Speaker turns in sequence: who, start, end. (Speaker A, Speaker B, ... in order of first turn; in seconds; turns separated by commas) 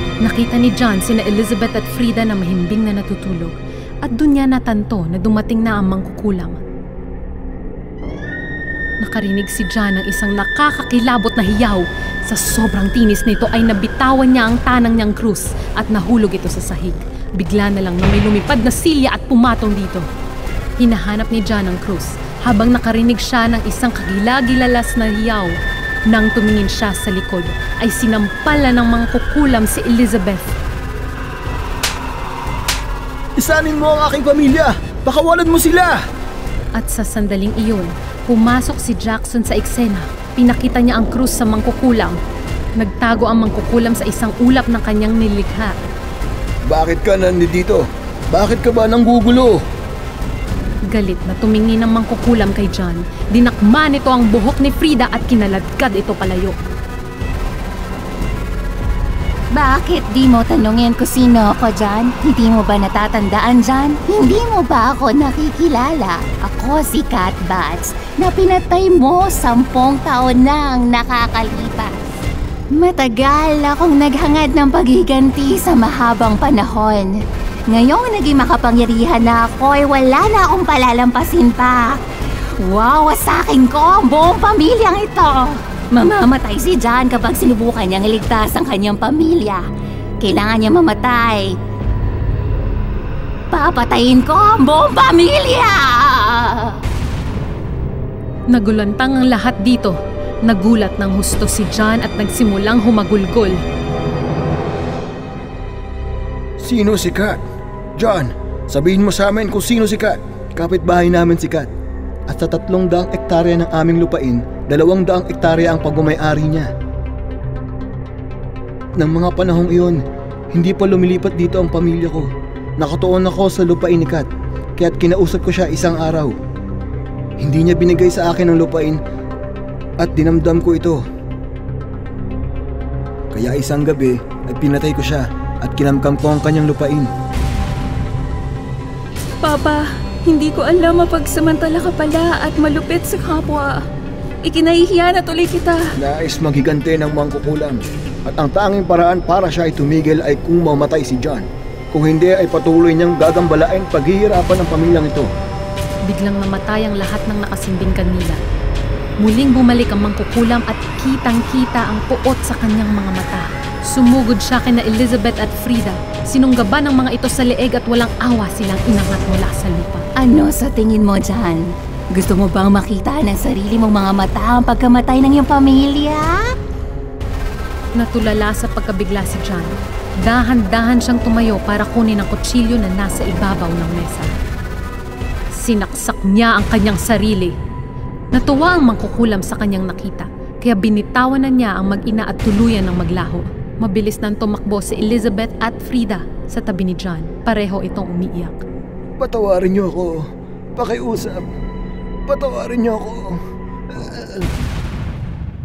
Speaker A: 0.2-6.6, Speaker A: 9.0-20.1, Speaker A: 20.8-25.6, Speaker A: 26.1-30.5, Speaker B: 33.4-36.0, Speaker A: 36.8-42.2, Speaker A: 42.8-45.8, Speaker B: 46.7-49.6, Speaker A: 50.9-56.5, Speaker C: 59.5-71.9, Speaker C: 72.7-77.1, Speaker C: 77.7-81.9, Speaker C: 82.6-89.6, Speaker C: 90.2-91.5, Speaker C: 93.5-96.1, Speaker A: 98.5-103.6, Speaker B: 106.6-107.4, Speaker B: 108.0-111.7, Speaker B: 112.3-116.7, Speaker B: 119.0-120.0, Speaker B: 120.5-126.3, Speaker B: 127.4-129.0, Speaker B: 130.0-131.0, Speaker B: 133.3-137.1, Speaker D: 139.4-143.8, Speaker D: 144.4-145.9, Speaker B: 146.0-155.3, Speaker A: 156.1-158.4, Speaker A: 159.2-170.1, Speaker C: 170.2-171.6, Speaker C: 172.1-176.2, Speaker A: 178.0-184.3, Speaker A: 185.5-187.5, Speaker A: 188.3-198.6, Speaker B: 199.2-201.4, Speaker B: 202.2-203.4, Speaker B: 203.9-204.4